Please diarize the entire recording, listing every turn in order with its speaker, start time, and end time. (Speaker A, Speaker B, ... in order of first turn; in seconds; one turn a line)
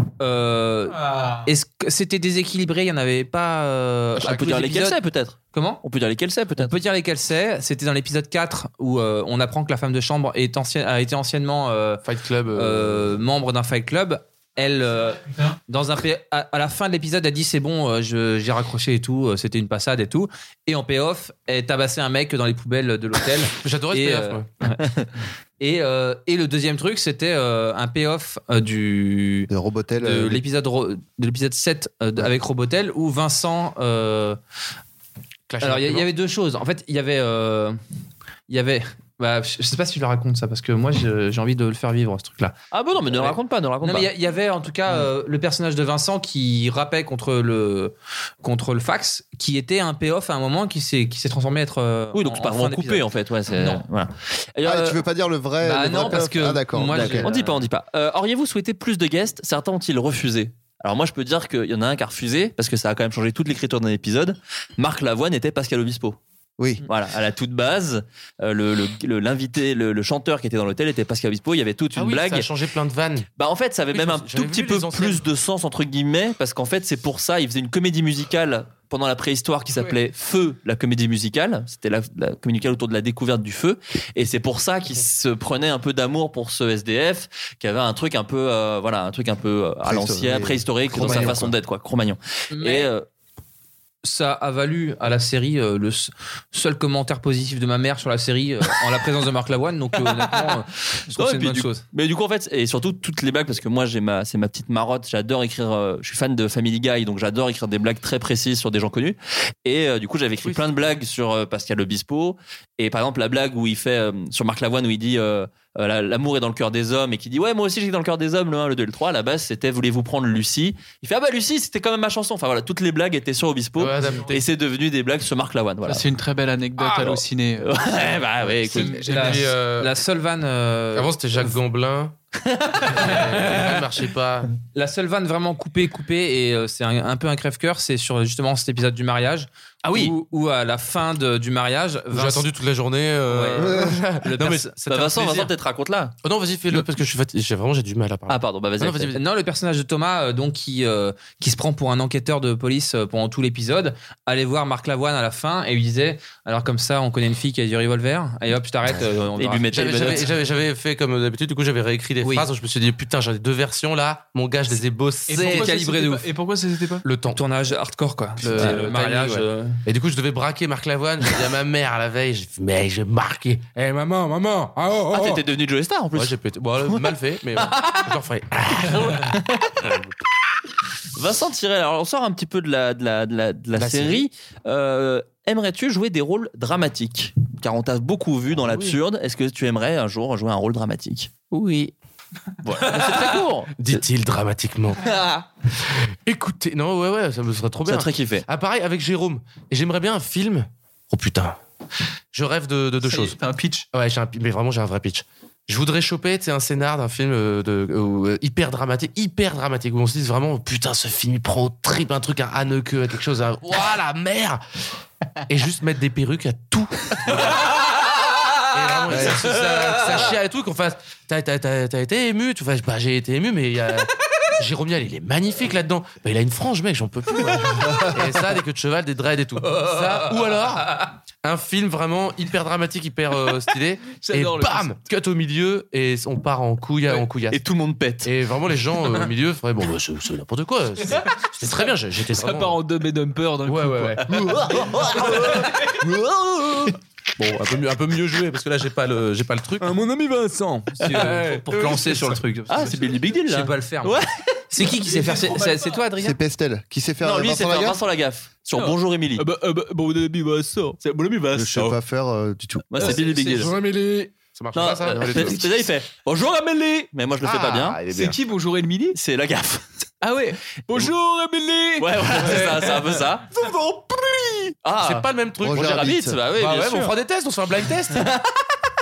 Speaker A: 0.2-5.0
Speaker B: 4.2-6.8
Speaker A: 5.5-5.8
Speaker A: 6.6-24.8
Speaker C: 12.0-13.1
Speaker C: 23.6-24.5
Speaker A: 25.6-29.5
Speaker D: 29.5-30.4
Speaker A: 30.0-34.4
Speaker C: 35.5-36.1
Speaker A: 35.6-37.8
Speaker A: 38.5-53.8
Speaker B: 42.7-44.1
Speaker B: 52.1-55.0
Speaker D: 54.6-57.3
Speaker A: 55.6-57.6
Speaker B: 56.9-66.2
Speaker D: 66.6-66.8
Speaker B: 66.8-72.5
Speaker C: 72.0-73.3
Speaker B: 73.4-93.0
Speaker C: 73.9-75.2
Speaker D: 89.8-91.5
Speaker A: 91.0-91.3
Speaker A: 92.5-92.9
Speaker A: 94.0-101.8
Speaker B: 101.2-126.0
Speaker C: 123.8-124.4
Speaker E: 125.8-127.8
Speaker A: 126.8-127.1
Speaker B: 127.0-129.0
Speaker E: 128.6-129.5
Speaker A: 129.0-131.1
Speaker C: 129.1-129.9
Speaker C: 130.9-132.2
Speaker C: 132.8-134.5
Speaker A: 132.8-133.7
Speaker A: 134.7-142.5
Speaker B: 139.8-140.2
Speaker C: 142.1-145.5
Speaker A: 143.3-143.7
Speaker D: 143.6-144.0
Speaker B: 144.2-146.1
Speaker C: 146.2-149.2
Speaker B: 148.3-149.2
Speaker A: 149.1-159.7
Speaker B: 159.4-160.3
Speaker C: 159.7-165.8
Speaker A: 162.2-162.5
Speaker E: 165.3-167.0
Speaker A: 165.3-166.2
Speaker C: 167.0-167.4
Speaker A: 167.3-169.8
Speaker C: 168.4-175.4
Speaker B: 175.1-177.1
Speaker C: 176.2-180.1
Speaker B: 178.8-179.8
Speaker B: 181.2-191.5
Speaker C: 183.8-184.2
Speaker C: 188.5-189.0
Speaker B: 192.6-194.0
Speaker C: 193.8-195.1
Speaker C: 195.9-201.6
Speaker B: 197.9-198.4
Speaker C: 202.3-203.4
Speaker E: 203.0-203.9
Speaker C: 203.9-214.6
Speaker C: 215.5-217.8
Speaker C: 218.7-237.6
Speaker D: 219.1-219.4
Speaker A: 229.8-230.3
Speaker E: 234.1-235.0
Speaker B: 237.5-238.3
Speaker C: 238.2-242.8
Speaker E: 242.3-246.2
Speaker C: 243.7-245.6
Speaker C: 247.4-250.0
Speaker A: 249.8-256.4
Speaker E: 251.2-251.9
Speaker C: 251.2-252.3
Speaker B: 252.7-254.2
Speaker E: 254.9-256.0
Speaker D: 256.2-258.0
Speaker B: 257.2-259.5
Speaker E: 258.8-261.9
Speaker D: 261.5-263.2
Speaker B: 262.9-263.7
Speaker E: 263.0-263.7
Speaker C: 263.0-265.7
Speaker B: 264.7-268.0
Speaker E: 266.5-267.1
Speaker C: 267.4-268.4
Speaker E: 268.1-269.2
Speaker B: 269.1-269.8
Speaker E: 270.2-274.7
Speaker B: 272.0-273.5
Speaker B: 274.8-277.1
Speaker C: 275.0-278.3
Speaker D: 275.6-276.4
Speaker B: 278.2-278.4